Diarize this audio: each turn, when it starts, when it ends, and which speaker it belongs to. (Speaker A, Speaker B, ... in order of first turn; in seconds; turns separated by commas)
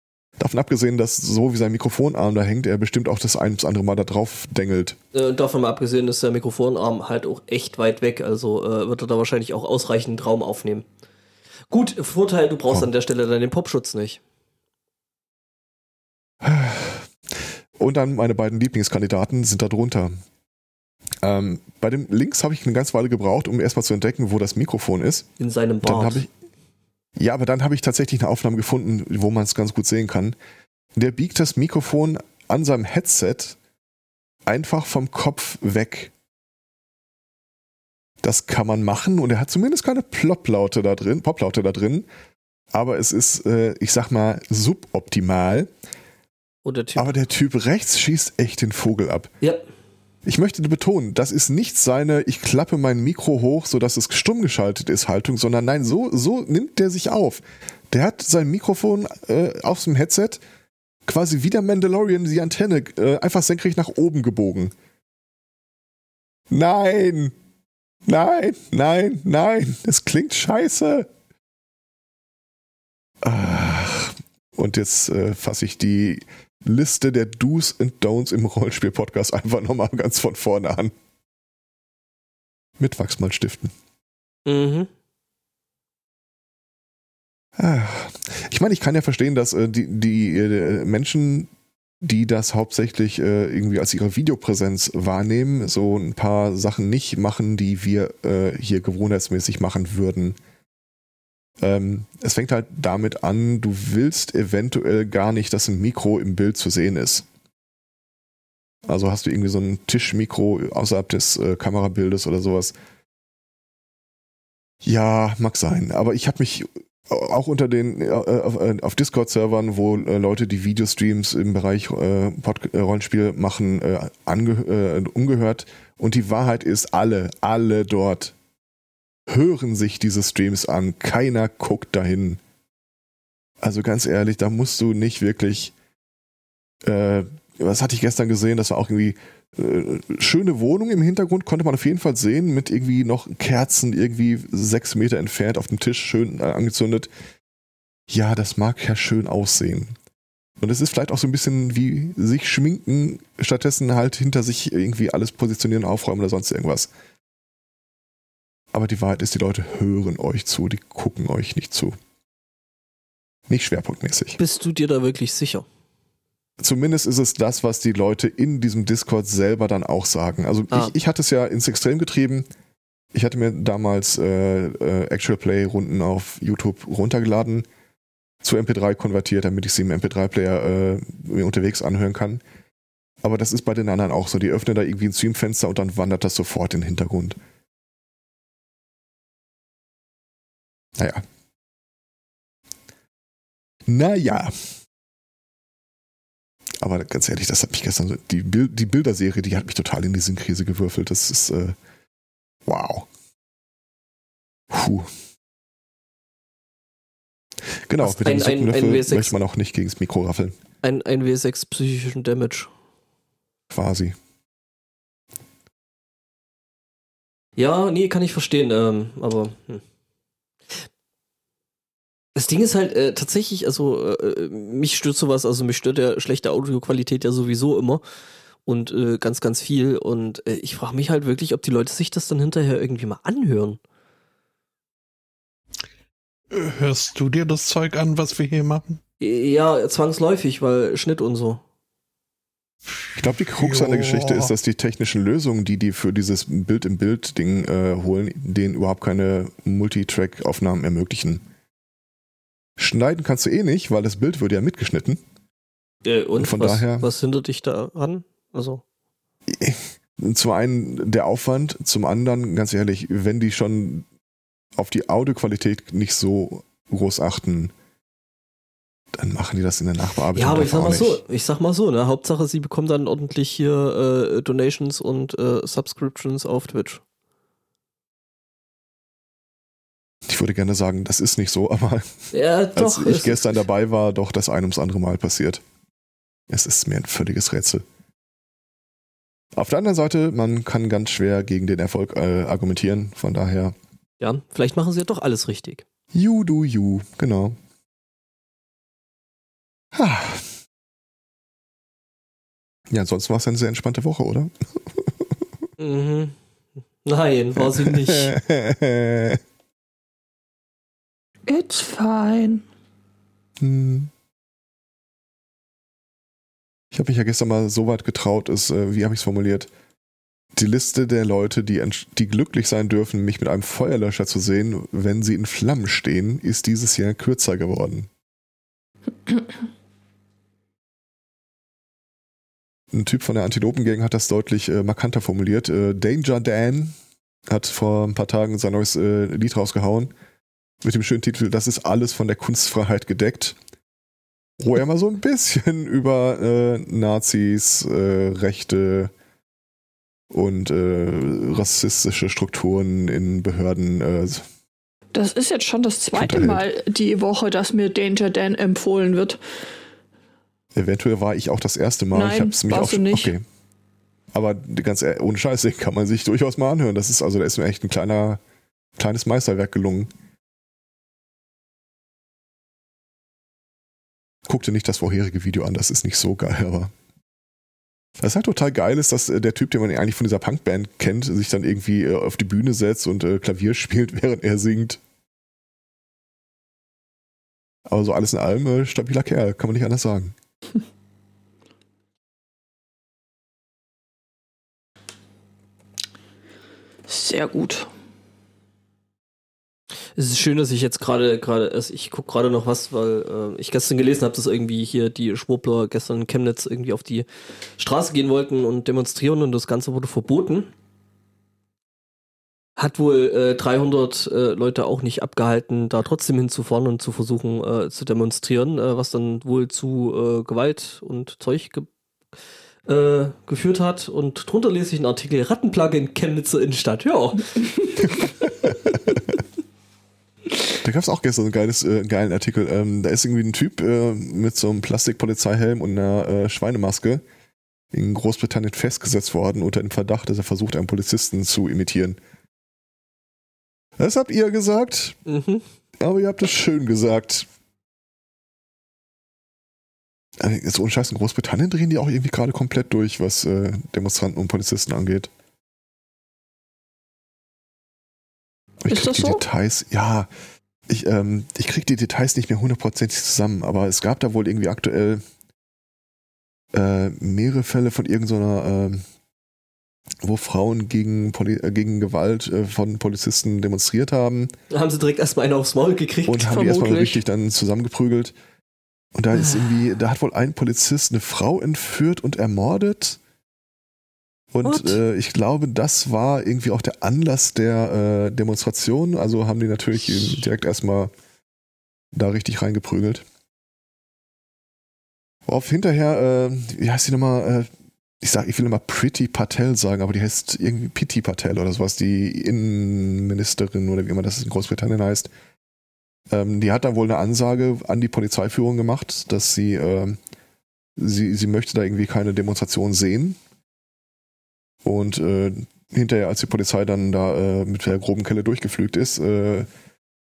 Speaker A: 0.4-5.0, Speaker B: 5.1-10.8, Speaker B: 11.7-14.2, Speaker A: 16.4-17.1, Speaker A: 17.8-20.1, Speaker A: 21.2-25.3, Speaker B: 25.4-26.2, Speaker A: 25.8-26.3, Speaker A: 27.2-30.3, Speaker A: 31.0-33.5, Speaker A: 34.5-36.1, Speaker A: 38.2-42.0, Speaker A: 42.7-45.7, Speaker B: 46.6-47.1, Speaker A: 47.0-49.3, Speaker A: 50.2-60.4, Speaker A: 61.1-64.7, Speaker A: 66.5-67.3, Speaker A: 68.0-71.1, Speaker A: 73.2-80.9, Speaker A: 82.8-83.7, Speaker B: 84.5-84.9, Speaker A: 87.6-91.5, Speaker A: 92.0-100.4, Speaker A: 101.6-107.2, Speaker A: 108.8-112.7, Speaker A: 114.8-128.3, Speaker A: 129.3-132.4, Speaker A: 133.6-135.7, Speaker A: 136.8-147.1, Speaker A: 148.1-149.9, Speaker A: 150.6-156.9, Speaker A: 158.7-161.9, Speaker A: 163.5-164.4, Speaker B: 164.4-165.7, Speaker A: 166.6-172.5, Speaker A: 173.1-177.7, Speaker A: 178.4-182.4, Speaker A: 183.2-187.4, Speaker A: 191.0-191.2, Speaker A: 193.9-194.6, Speaker A: 196.8-201.8, Speaker A: 202.7-203.1, Speaker A: 204.7-205.1, Speaker A: 207.9-210.6, Speaker B: 208.0-209.3, Speaker B: 210.8-212.7, Speaker A: 213.7-214.2, Speaker B: 217.6-219.8, Speaker B: 222.3-228.0, Speaker B: 228.7-233.8, Speaker C: 236.5-239.0, Speaker B: 239.2-241.6, Speaker C: 242.8-244.5, Speaker A: 243.2-251.4, Speaker A: 252.8-255.2, Speaker B: 256.0-258.8, Speaker A: 256.4-257.1, Speaker A: 259.5-264.1, Speaker A: 264.8-267.7, Speaker A: 269.1-271.2, Speaker B: 270.3-277.0, Speaker A: 280.3-285.6, Speaker B: 282.3-283.5, Speaker A: 286.5-287.8, Speaker A: 289.6-293.7, Speaker B: 294.2-295.8, Speaker A: 296.1-297.6, Speaker A: 299.9-300.5, Speaker A: 302.9-305.3, Speaker B: 305.8-306.4, Speaker B: 307.0-308.3, Speaker A: 307.6-309.4, Speaker D: 311.5-312.6, Speaker A: 313.6-314.1, Speaker A: 316.9-319.7, Speaker A: 320.6-328.1, Speaker A: 332.9-336.9, Speaker A: 337.5-340.1, Speaker A: 340.8-343.6, Speaker A: 344.6-349.1, Speaker A: 350.3-354.4, Speaker D: 355.1-359.4, Speaker A: 356.1-356.6, Speaker A: 360.7-363.4, Speaker D: 362.1-363.3, Speaker A: 364.3-368.4, Speaker A: 369.0-370.1, Speaker A: 374.4-376.9, Speaker A: 378.2-385.0, Speaker A: 387.9-390.3, Speaker D: 397.1-397.9, Speaker B: 400.1-410.7, Speaker B: 412.8-421.9, Speaker B: 422.9-427.7, Speaker A: 428.6-429.2, Speaker A: 430.8-437.2, Speaker A: 437.9-442.2, Speaker A: 444.0-445.2, Speaker B: 445.3-445.6, Speaker A: 446.0-447.4, Speaker A: 450.4-455.3, Speaker A: 458.8-460.3, Speaker D: 458.9-459.4, Speaker A: 460.9-465.2, Speaker A: 466.7-469.0, Speaker A: 470.2-474.5, Speaker B: 474.7-476.5, Speaker A: 476.2-478.3, Speaker D: 476.5-477.2, Speaker A: 479.1-483.2, Speaker B: 479.3-479.7, Speaker A: 484.5-491.1, Speaker B: 484.6-485.0, Speaker A: 492.1-493.2, Speaker A: 495.5-497.7, Speaker A: 498.2-505.3, Speaker A: 506.3-510.2, Speaker A: 511.0-513.4, Speaker A: 514.8-519.7